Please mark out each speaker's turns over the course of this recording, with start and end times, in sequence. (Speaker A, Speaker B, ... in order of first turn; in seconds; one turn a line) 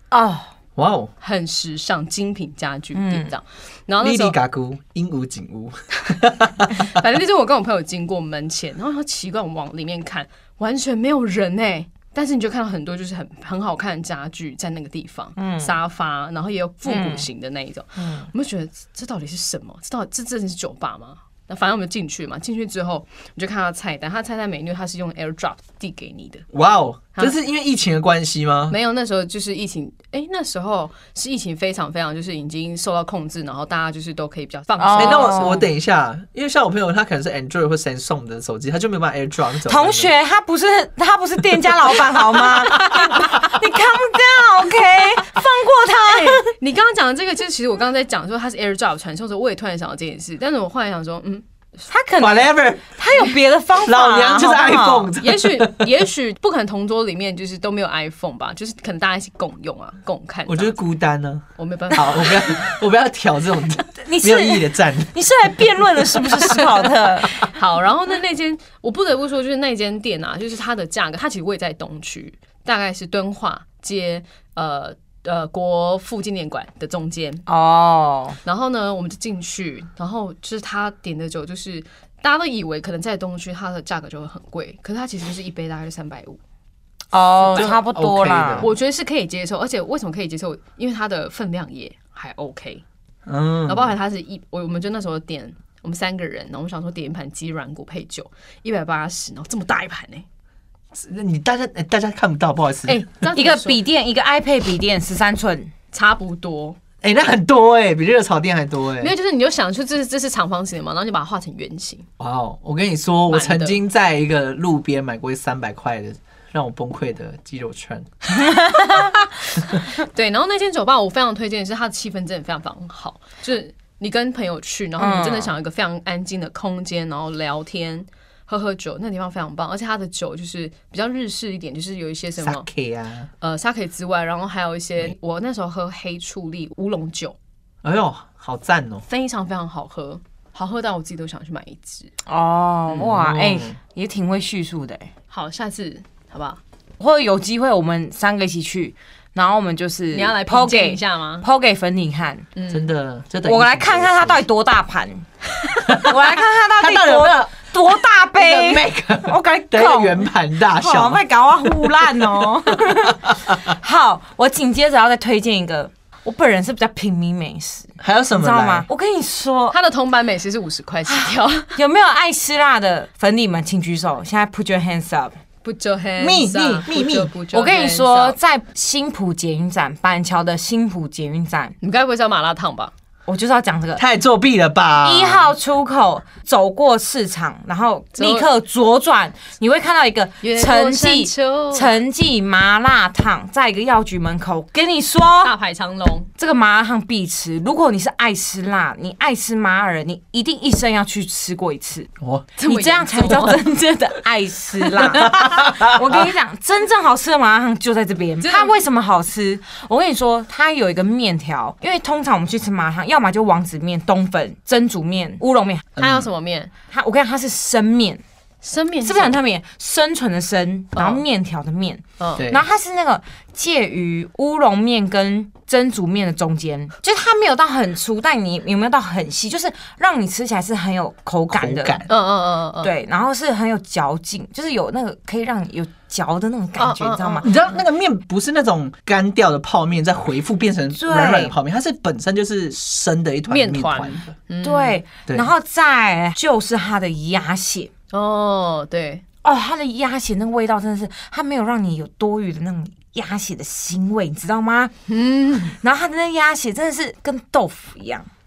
Speaker A: 0.1-0.5
Speaker B: 0.8-1.1
Speaker C: 1.2-4.4
Speaker A: 2.9-3.3
Speaker B: 4.0-6.9
Speaker C: 6.7-26.4
Speaker A: 15.4-15.8
Speaker A: 16.9-17.3
Speaker A: 18.0-18.3
Speaker B: 26.5-28.8
Speaker C: 28.7-35.6
Speaker A: 34.8-35.6
Speaker B: 35.0-40.1
Speaker A: 39.6-46.5
Speaker B: 42.8-43.5
Speaker C: 46.0-51.9
Speaker A: 51.9-55.1
Speaker B: 52.2-52.9
Speaker B: 53.8-55.9
Speaker C: 55.1-60.8
Speaker B: 60.5-65.1
Speaker C: 61.6-62.7
Speaker A: 64.0-67.5
Speaker C: 67.3-77.5
Speaker A: 77.5-78.4
Speaker C: 78.5-86.4
Speaker A: 87.1-88.7
Speaker B: 87.5-88.7
Speaker C: 88.6-92.8
Speaker B: 93.2-94.0
Speaker C: 93.7-100.2
Speaker B: 100.9-103.0
Speaker C: 102.9-103.8
Speaker A: 103.3-105.7
Speaker C: 105.9-106.8
Speaker B: 107.0-109.1
Speaker C: 109.0-112.1
Speaker B: 112.2-118.1
Speaker C: 113.3-113.8
Speaker A: 118.4-119.1
Speaker C: 119.7-132.7
Speaker A: 125.0-125.5
Speaker B: 132.4-133.3
Speaker C: 133.4-137.4
Speaker B: 137.8-139.1
Speaker C: 139.1-142.1
Speaker A: 142.2-145.1
Speaker B: 142.9-143.8
Speaker C: 145.3-146.6
Speaker A: 147.0-152.5
Speaker C: 150.1-151.4
Speaker C: 152.6-152.9
Speaker B: 152.7-154.4
Speaker A: 153.4-169.8
Speaker B: 155.9-163.6
Speaker B: 168.0-168.9
Speaker C: 169.7-171.8
Speaker A: 171.1-175.3
Speaker C: 175.6-178.4
Speaker B: 176.2-177.3
Speaker A: 177.5-181.8
Speaker C: 181.8-182.9
Speaker A: 183.3-184.0
Speaker B: 184.0-185.5
Speaker A: 185.0-195.5
Speaker C: 188.2-188.5
Speaker C: 190.4-191.9
Speaker C: 195.4-196.3
Speaker A: 196.4-202.1
Speaker B: 202.2-202.5
Speaker C: 202.6-203.6
Speaker A: 202.6-215.9
Speaker B: 205.0-206.3
Speaker C: 208.4-208.8
Speaker B: 216.0-216.3
Speaker C: 216.0-216.7
Speaker A: 216.9-218.2
Speaker C: 218.6-219.4
Speaker A: 219.0-232.0
Speaker C: 220.9-221.2
Speaker C: 222.2-222.4
Speaker B: 222.4-222.6
Speaker B: 231.5-232.1
Speaker C: 232.1-232.9
Speaker A: 232.8-237.5
Speaker C: 236.8-237.5
Speaker B: 237.4-244.3
Speaker A: 240.9-241.5
Speaker C: 243.5-245.0
Speaker A: 244.6-247.9
Speaker C: 248.1-249.2
Speaker A: 249.4-254.9
Speaker C: 255.1-255.8
Speaker A: 255.7-258.3